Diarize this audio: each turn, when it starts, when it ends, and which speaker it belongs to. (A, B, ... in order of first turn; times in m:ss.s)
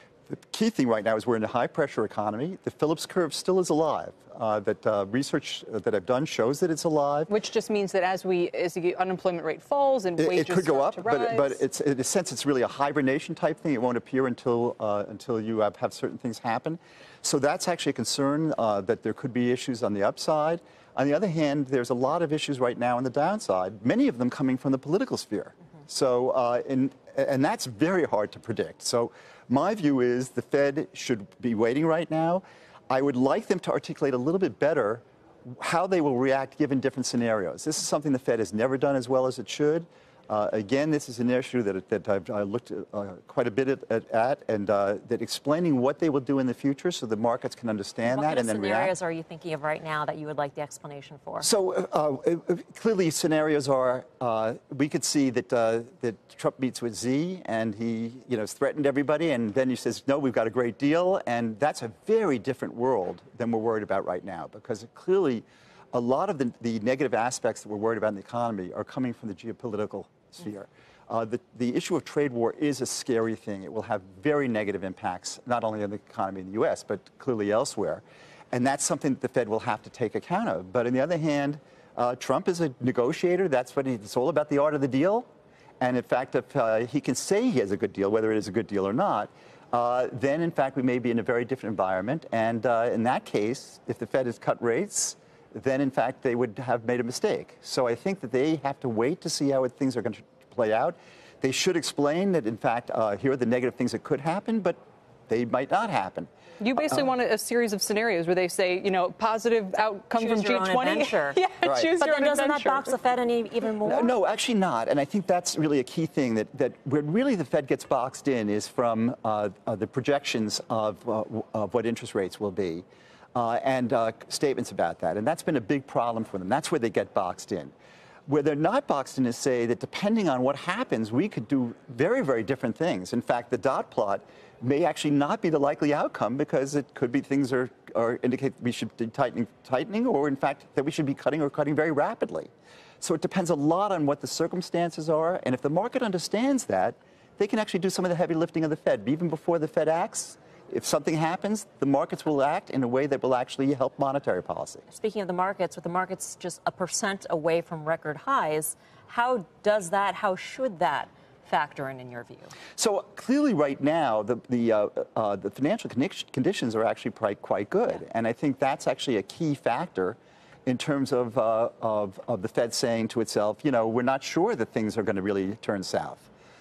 0:00.3-0:07.3 A
0:07.3-0:11.6 B
0:10.2-0:48.9 A
0:48.0-0:51.5 C
0:51.4-1:25.2 A
1:25.8-1:44.8 A
1:45.3-1:46.3 A
1:46.6-1:52.9 B
1:50.1-1:51.4 C
1:51.6-1:51.9 A
1:52.0-1:54.1 C
1:53.8-2:07.7 A
2:08.3-2:34.8 A
2:34.9-2:42.5 C
2:42.7-2:56.3 A